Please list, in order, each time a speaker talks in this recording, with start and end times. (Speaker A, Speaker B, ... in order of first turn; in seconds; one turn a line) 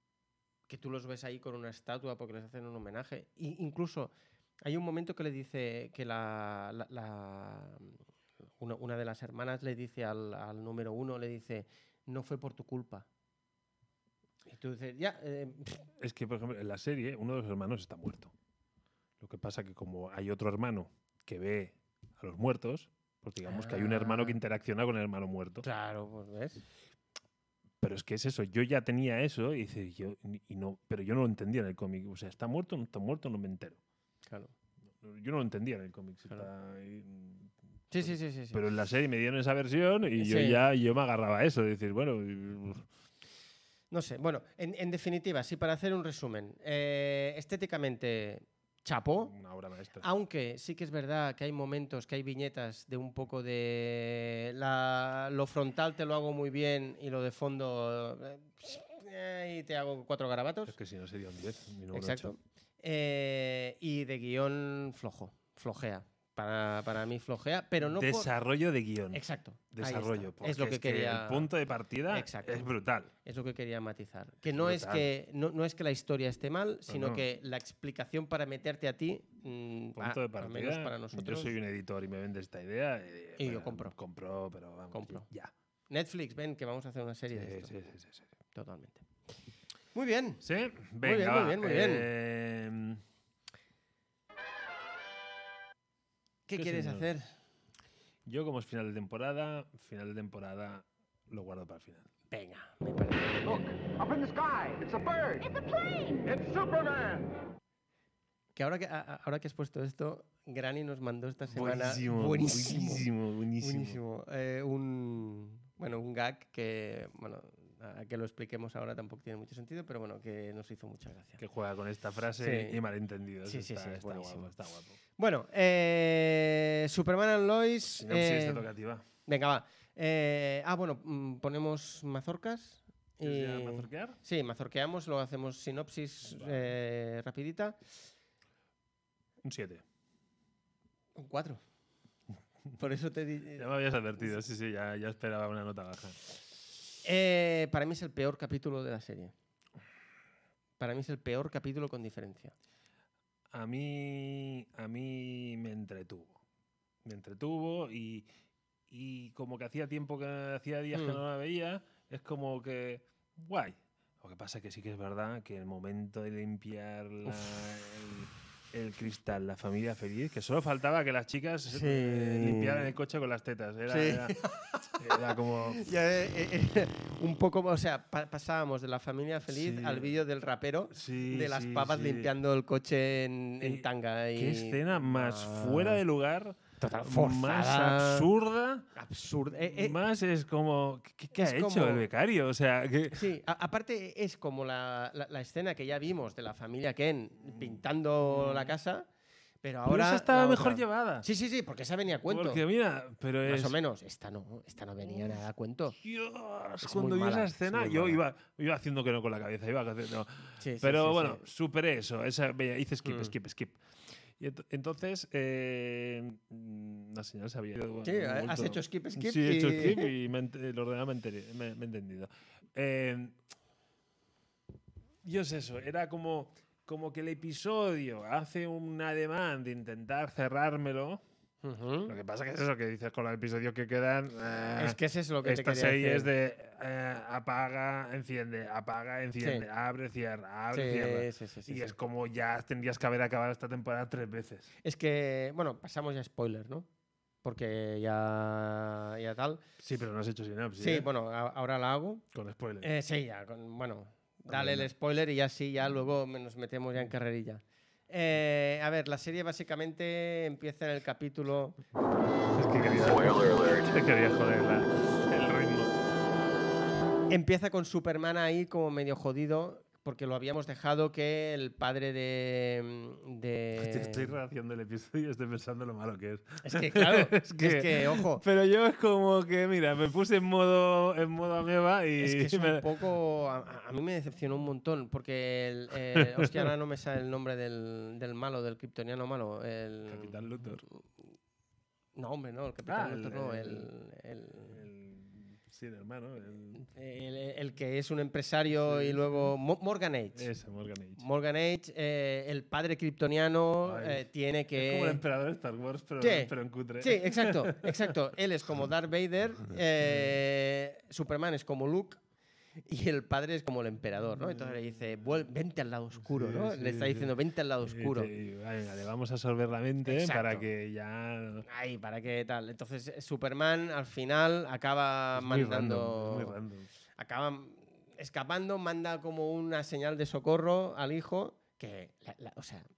Speaker A: 0.7-8.0
Speaker A: 8.6-13.1
Speaker A: 14.5-15.9
Speaker B: 16.0-18.3
Speaker B: 19.2-25.7
Speaker A: 23.4-24.4
Speaker A: 25.6-26.6
Speaker B: 27.8-33.8
Speaker A: 34.3-34.5
Speaker B: 34.9-42.9
Speaker A: 37.9-38.6
Speaker A: 40.2-40.6
Speaker A: 43.9-49.3
Speaker B: 49.2-50.1
Speaker A: 50.0-60.7
Speaker B: 60.7-62.3
Speaker A: 61.9-68.3
Speaker B: 67.8-73.1
Speaker A: 69.1-71.5
Speaker A: 72.1-72.7
Speaker A: 73.2-81.5
Speaker B: 74.5-75.1
Speaker B: 76.9-77.2
Speaker B: 80.0-85.5
Speaker A: 83.4-84.0
Speaker A: 84.9-85.3
Speaker A: 85.9-87.7
Speaker B: 87.3-88.3
Speaker A: 88.5-89.1
Speaker A: 89.9-90.4
Speaker B: 90.4-93.0
Speaker A: 91.0-92.1
Speaker A: 96.5-97.3
Speaker B: 96.6-97.1
Speaker B: 98.3-102.1
Speaker A: 102.3-103.6
Speaker C: 103.4-107.3
Speaker A: 108.5-121.4
Speaker B: 111.5-114.0
Speaker B: 121.4-125.0
Speaker A: 122.4-122.8
Speaker A: 123.5-124.5
Speaker A: 125.2-128.7
Speaker B: 127.8-129.1
Speaker A: 129.3-137.8
Speaker B: 133.2-134.2
Speaker B: 136.3-136.7
Speaker B: 139.4-139.8
Speaker A: 141.2-141.6
Speaker A: 142.8-143.7
Speaker B: 143.6-146.2
Speaker A: 147.0-149.3
Speaker A: 150.8-152.5
Speaker B: 153.5-156.4
Speaker B: 157.1-158.3
Speaker B: 158.9-174.4
Speaker A: 160.9-161.2
Speaker A: 171.7-172.9
Speaker A: 173.9-186.0
Speaker B: 175.0-175.9
Speaker B: 179.5-180.2
Speaker B: 180.9-182.3
Speaker B: 183.6-188.9
Speaker A: 186.8-188.3
Speaker A: 189.0-190.0
Speaker B: 189.6-193.3
Speaker A: 191.3-192.1
Speaker A: 193.1-199.1
Speaker B: 197.5-197.7
Speaker B: 198.2-198.8
Speaker A: 199.6-202.6
Speaker B: 199.9-201.3
Speaker B: 202.3-203.8
Speaker A: 203.4-206.0
Speaker B: 205.1-205.4
Speaker B: 205.9-223.4
Speaker A: 206.8-208.2
Speaker A: 210.6-211.4
Speaker A: 213.1-213.3
Speaker A: 218.0-220.1
Speaker B: 225.2-231.2
Speaker A: 231.6-232.2
Speaker B: 232.1-244.7
Speaker A: 234.8-236.3
Speaker A: 240.7-241.9
Speaker A: 244.8-246.9
Speaker A: 247.4-249.7
Speaker B: 249.8-251.1
Speaker A: 250.8-252.2
Speaker B: 252.3-252.9
Speaker A: 252.8-261.8
Speaker B: 254.5-254.9
Speaker B: 262.5-265.9
Speaker A: 267.3-274.3
Speaker B: 273.8-282.9
Speaker A: 276.6-278.4
Speaker A: 282.2-290.3
Speaker B: 286.1-286.7
Speaker B: 290.1-290.8
Speaker A: 292.1-294.8
Speaker B: 292.9-293.9
Speaker B: 294.6-296.8
Speaker A: 296.8-300.5
Speaker B: 298.8-299.6
Speaker B: 300.4-301.2
Speaker A: 301.2-305.2
Speaker B: 303.8-308.1
Speaker A: 306.2-312.2
Speaker A: 312.9-318.3
Speaker B: 314.4-314.8
Speaker B: 316.1-317.3
Speaker B: 317.8-321.7
Speaker A: 320.1-320.7
Speaker A: 321.7-326.6
Speaker B: 325.4-326.9
Speaker A: 327.2-332.9